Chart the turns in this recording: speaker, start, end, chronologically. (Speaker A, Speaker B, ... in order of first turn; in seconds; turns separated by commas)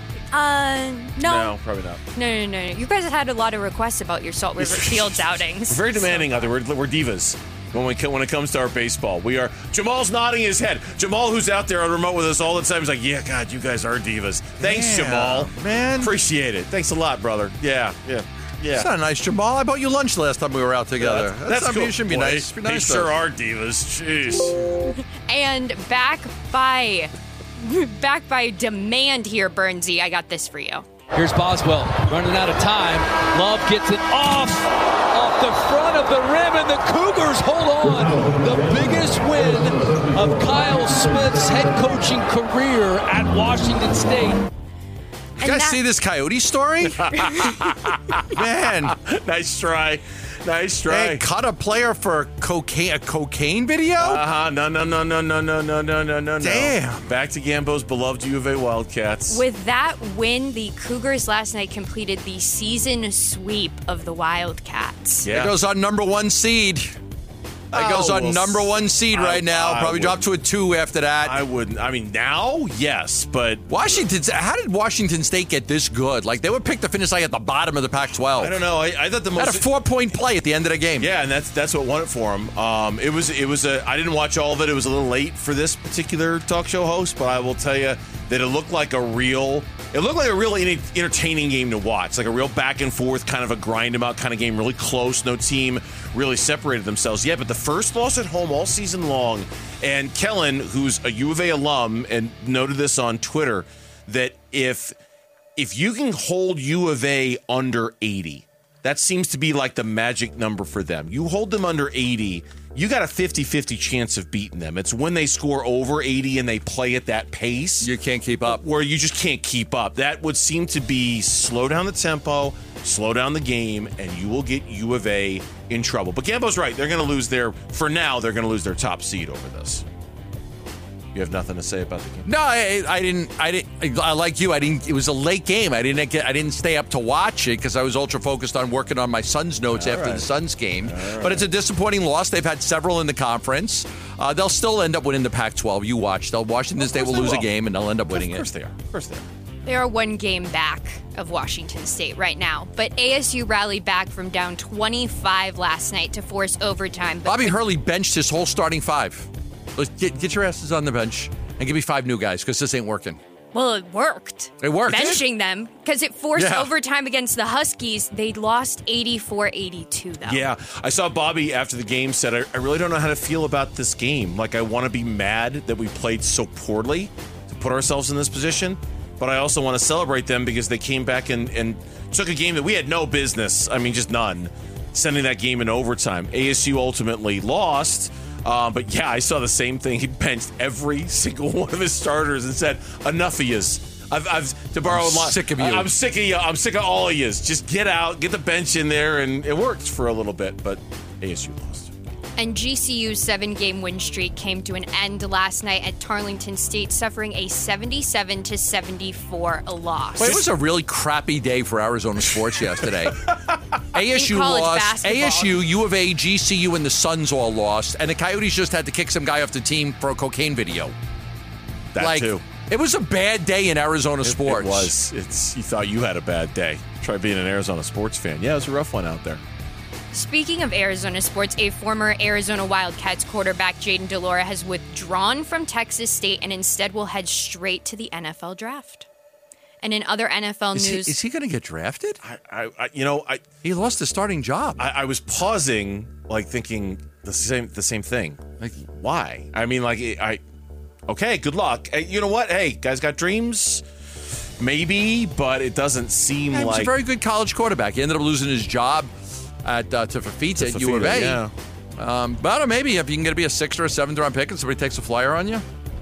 Speaker A: 0.3-1.6, Speaker B: 1.2-2.0, Speaker A: 2.1-6.5, Speaker B: 4.6-18.9, Speaker C: 14.6-16.1, Speaker C: 18.7-23.1, Speaker B: 21.0-24.7, Speaker A: 24.8-30.9, Speaker D: 31.1-44.5, Speaker A: 45.4-45.8, Speaker C: 45.4-47.1, Speaker B: 46.9-48.3, Speaker A: 47.2-47.6, Speaker C: 48.3-49.0, Speaker B: 48.9-51.2, Speaker C: 50.9-54.2, Speaker B: 54.0-59.4, Speaker C: 56.4-57.1, Speaker A: 59.3-65.3, Speaker B: 65.2-65.6, Speaker C: 65.3-66.9, Speaker B: 67.7-70.3, Speaker C: 67.7-71.4, Speaker B: 71.2-74.0, Speaker C: 73.7-78.6, Speaker B: 78.4-79.7, Speaker C: 79.4-81.1, Speaker B: 81.0-105.0, Speaker B: 105.6-117.9, Speaker C: 117.8-118.6, Speaker B: 118.4-129.8, Speaker B: 131.1-132.3, Speaker C: 132.2-148.5, Speaker B: 139.7-140.3, Speaker B: 140.8-141.5, Speaker B: 146.8-147.5, Speaker B: 148.1-149.3, Speaker A: 149.7-157.6, Speaker C: 157.3-163.2, Speaker A: 163.5-170.5, Speaker C: 164.6-165.2, Speaker C: 166.3-166.7, Speaker B: 170.3-201.9, Speaker C: 194.8-195.9, Speaker A: 202.4-210.4, Speaker C: 210.2-213.2, Speaker C: 213.9-220.9, Speaker A: 214.0-215.7, Speaker B: 221.9-222.4, Speaker C: 222.0-224.9, Speaker B: 224.2-229.4, Speaker A: 230.1-239.1, Speaker A: 239.8-241.2, Speaker C: 240.8-242.2, Speaker B: 242.2-243.4, Speaker C: 243.6-244.8, Speaker B: 244.8-250.4, Speaker B: 251.1-253.8, Speaker B: 254.6-256.9, Speaker C: 256.5-259.1, Speaker C: 259.6-261.4, Speaker B: 260.6-261.5, Speaker C: 262.0-265.6